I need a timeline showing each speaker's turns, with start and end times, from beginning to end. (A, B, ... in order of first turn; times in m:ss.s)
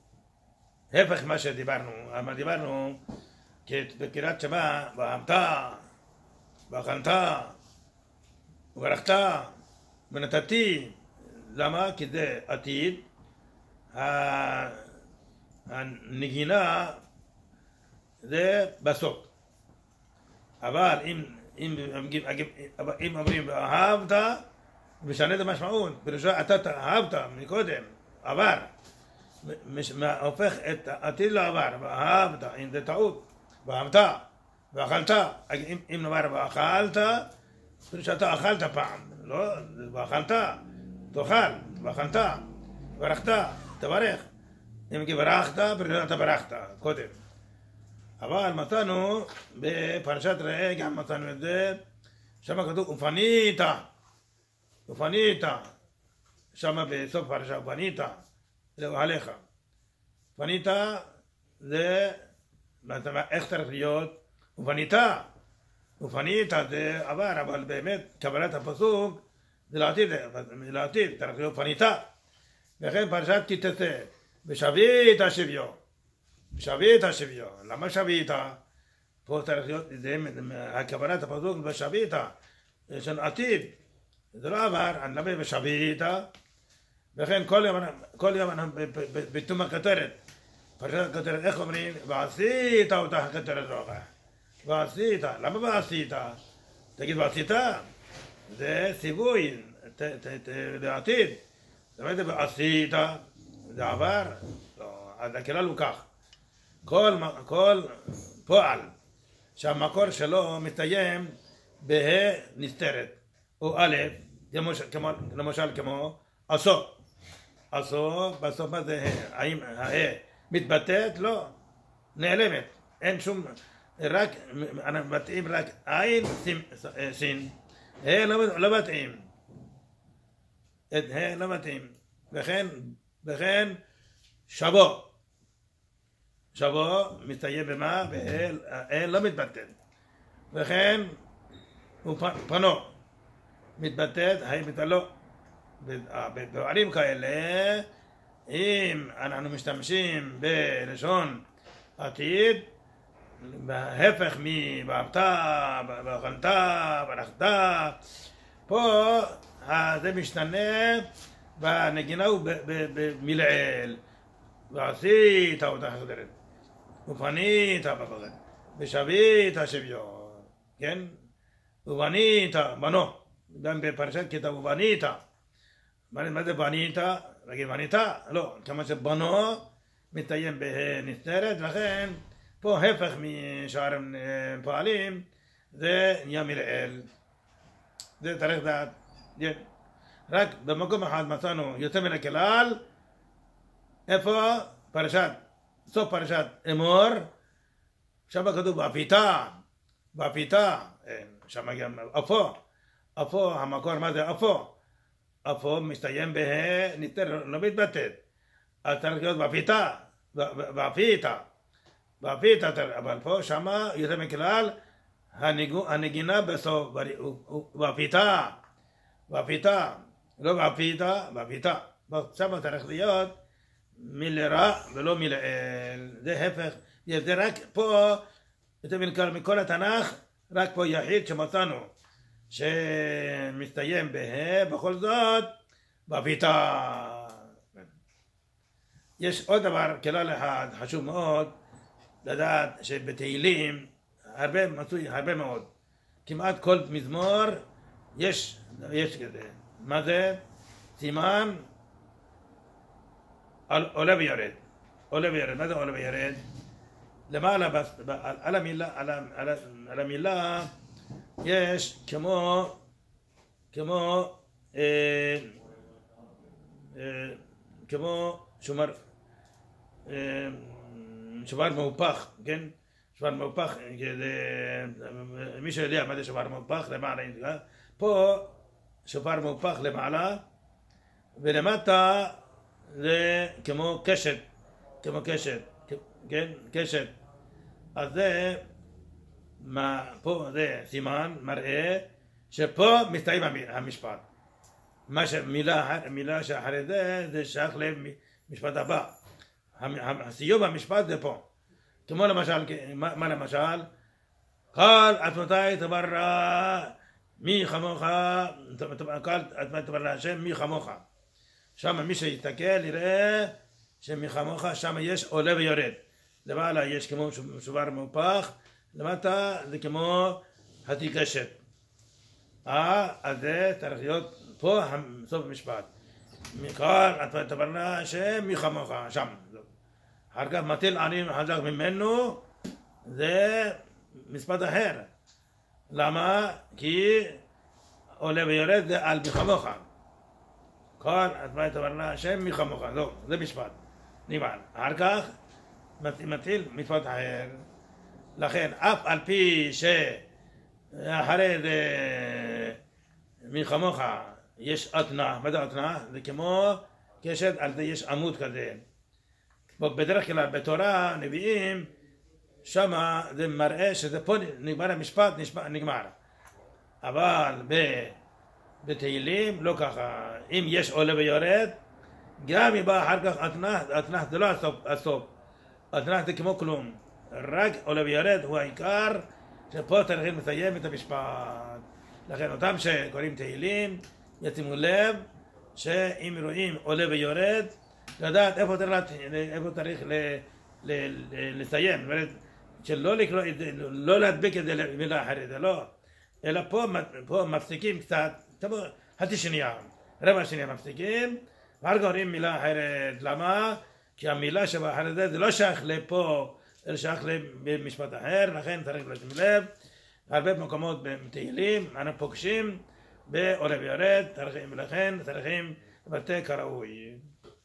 0:00.9-0:03.0 A
0:03.6-0:05.8 A
0:06.7-0:07.6 A
0:08.7-0:09.6 A
0:10.1-0:13.0 A
0:13.9-0:14.9 A
0:15.7-0:17.0 A
0:18.2-0:19.3 A
0:20.6-0:24.4 A
0:25.0-0:28.7 A
0:29.4-0:37.3 A
0:37.9-0:44.3 A
0:44.9-0:47.1 A
0:48.2-0:51.8 A
0:52.4-0:53.9 A
0:54.9-0:55.7 A
0:56.5-0:58.2 A
0:58.8-0:59.4 A
1:00.4-1:01.1 A
1:01.6-1:02.2 A
1:02.8-1:05.3 A
1:06.0-1:12.0 A
1:12.8-1:15.8 A
1:16.5-1:18.6 A
1:19.2-1:22.3 A
1:22.9-1:23.7 A
1:24.3-1:26.3 A
1:27.1-1:30.2 A
1:30.8-1:34.1 A
1:34.6-1:36.4 A
1:37.0-1:37.9 A
1:38.5-1:41.4 A
1:42.0-1:46.1 A
1:46.8-1:48.9 A
1:49.6-1:56.9 A
1:57.7-2:01.5 A
2:02.2-2:09.3 A
2:10.9-2:13.8 A
2:14.5-2:15.1 A
2:16.5-2:19.7 A
2:20.5-2:21.1 A
2:22.0-2:22.9 A
2:23.8-2:25.1 A
2:25.8-2:27.8 A
2:28.5-2:31.4 A
2:32.0-2:32.7 A
2:33.4-2:38.0 A
2:38.7-2:44.0 A
2:44.7-2:46.3 A
2:47.0-2:51.2 A
2:51.8-2:55.2 A
2:56.1-3:07.1 A
3:08.2-3:09.6 A
3:10.3-3:12.8 A
3:14.1-3:17.3 A
3:18.3-3:22.6 A
3:23.2-3:24.7 A
3:25.4-3:28.2 A
3:28.8-3:31.4 A
3:32.2-3:34.7 A
3:35.3-3:38.6 A
3:39.3-3:43.4 A
3:44.0-3:48.2 A
3:48.8-3:51.9 A
3:52.5-3:55.5 A
3:56.1-3:57.9 A
3:59.2-4:01.6 A
4:02.2-4:05.7 A
4:06.2-4:07.6 A
4:08.2-4:10.4 A
4:11.0-4:11.6 A
4:13.7-4:14.6 A
4:15.1-4:16.4 A
4:17.3-4:20.7 A
4:21.4-4:22.8 A
4:23.7-4:25.6 A
4:26.9-4:29.0 A
4:30.1-4:40.4 A
4:41.4-4:44.4 A
4:45.0-4:47.1 A
4:47.9-4:48.6 A
4:49.6-4:54.2 A
4:55.1-4:59.2 A
4:59.8-5:01.4 A
5:02.1-5:03.9 A
5:04.7-5:11.0 A
5:11.8-5:21.6 A
5:22.6-5:25.9 A
5:26.5-5:29.7 A
5:30.3-5:32.4 A
5:33.0-5:35.1 A
5:35.9-5:37.4 A
5:38.2-5:39.8 A
5:41.0-5:45.3 A
5:46.0-5:47.6 A
5:48.4-5:50.2 A
5:50.9-5:52.8 A
5:53.4-5:58.8 A
5:59.8-6:01.9 A
6:02.6-6:06.2 A
6:07.0-6:08.2 A
6:08.8-6:11.8 A
6:12.4-6:15.3 A
6:15.9-6:35.9 A
6:36.4-6:49.7 A
6:50.3-6:57.3 A